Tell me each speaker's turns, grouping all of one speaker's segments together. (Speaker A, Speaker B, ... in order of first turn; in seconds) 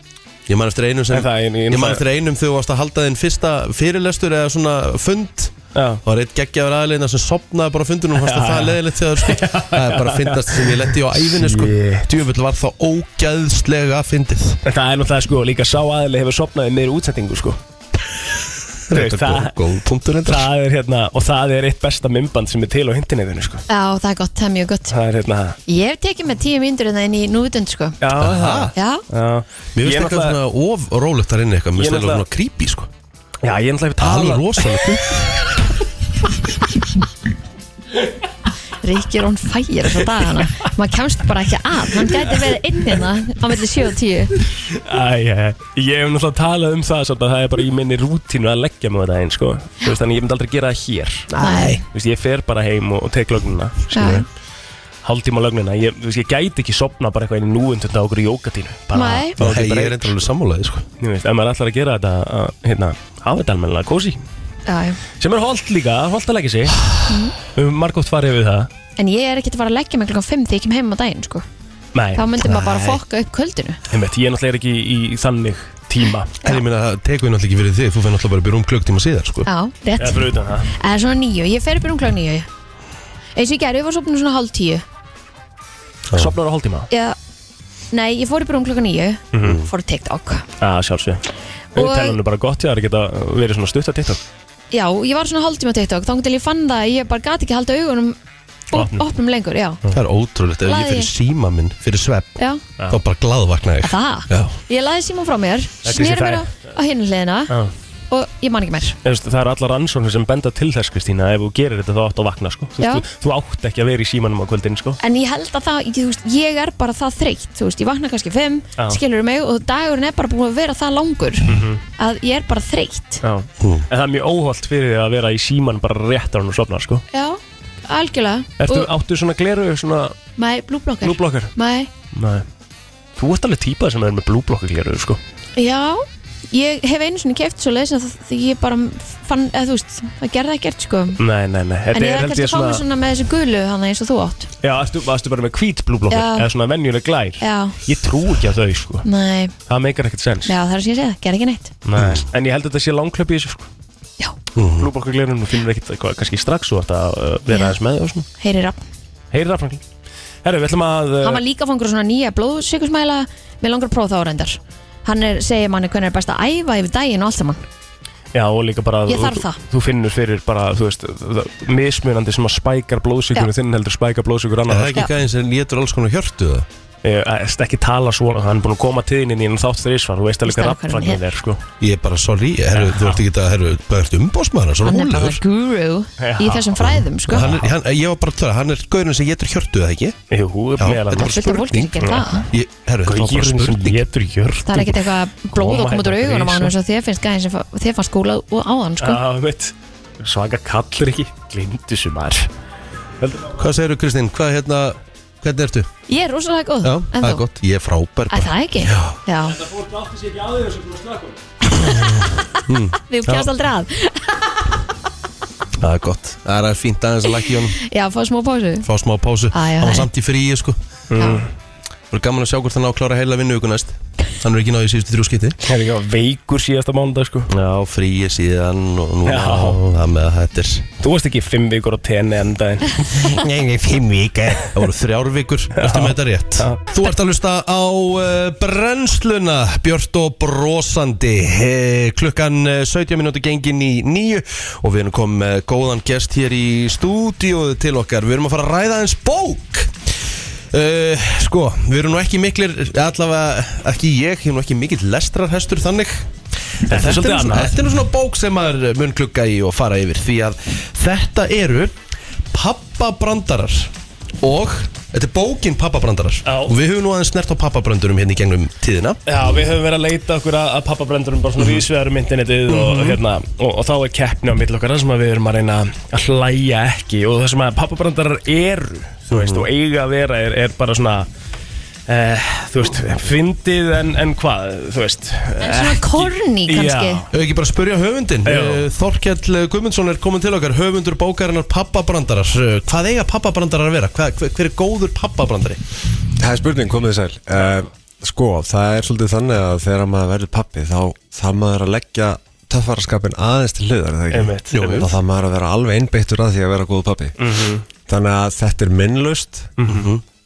Speaker A: 0.5-14.6, 18.9-20.5, 28.2-28.7, 29.8-32.9, 34.0-35.5, 51.3-51.8, 59.4-60.9, 76.4-79.5, 89.4-89.7, 99.9-102.4, 102.9-104.5, 123.6-123.9, 152.0-152.3, 154.6-154.9, 174.7-176.7, 181.8-185.4, 186.9-190.2, 190.8-191.9, 192.5-194.0, 203.6-205.9, 206.8-209.2, 212.7-213.5, 215.8-217.8, 218.8-220.8, 222.1-225.6, 227.5-230.9, 233.2-249.9, 250.7-256.3, 256.8-261.9, 262.5-269.2, 272.7-273.2, 279.3-279.7, 287.3-295.8, 304.7-305.1, 309.9-310.2
Speaker B: 1.1-2.0, 5.8-6.0, 8.2-12.1, 14.7-17.6, 18.9-19.6, 20.2-23.6, 24.9-25.6, 28.0-30.4, 31.8-32.2, 33.4-34.9, 44.8-54.3, 55.0-60.2, 61.0-64.2, 65.2-68.7, 71.9-72.6, 73.9-76.3, 80.0-80.7, 86.2-86.9, 89.3-89.6, 90.6-91.2, 91.7-94.2, 98.7-99.0, 105.8-106.5, 109.0-115.0, 121.5-121.8, 123.2-127.0, 128.6-130.2, 131.0-131.5, 132.1-132.5, 133.2-135.2, 141.2-142.8, 144.6-149.1, 149.7-150.5, 151.8-153.7, 154.8-158.3, 159.3-159.8, 160.4-161.4, 168.3-175.0, 177.0-181.6, 182.7-183.2, 186.2-187.7, 190.3-192.5, 193.1-196.7, 199.0-202.5, 203.2-203.6, 209.5-211.4, 221.1-221.5, 225.6-227.5, 229.2-229.8, 231.0-233.3, 235.8-236.8, 256.9-257.8, 266.5-266.8, 269.3-281.3, 282.1-287.3, 288.4-288.9, 304.3-304.8, 307.4-307.9, 309.8-310.1
Speaker C: 23.7-24.9, 25.7-28.0, 28.8-29.0, 38.8-44.4, 51.4-51.8, 53.9-54.2, 58.9-59.4, 64.7-65.0, 67.1-67.3, 69.0-71.5, 72.2-73.8, 79.5-82.5, 83.4-84.8, 86.9-87.2, 87.9-90.5, 91.8-92.2, 94.7-98.2, 98.7-99.8, 100.6-101.1, 103.8-107.5, 108.1-109.0, 112.8-113.0, 115.0-123.2, 127.1-128.9, 130.4-131.9, 135.6-141.2, 141.9-144.5, 146.1-146.5, 147.4-147.8, 149.1-149.5, 150.5-151.7, 157.5-157.8, 158.4-158.8, 161.2-167.6, 169.1-169.6, 180.5-181.2, 184.8-187.5, 191.1-192.5, 194.7-199.2, 206.1-207.4, 208.3-209.6, 213.1-214.6, 217.8-218.9, 219.5-220.1, 221.2-221.4, 285.6-287.2
Speaker D: 296.4-307.4, 308.1-309.7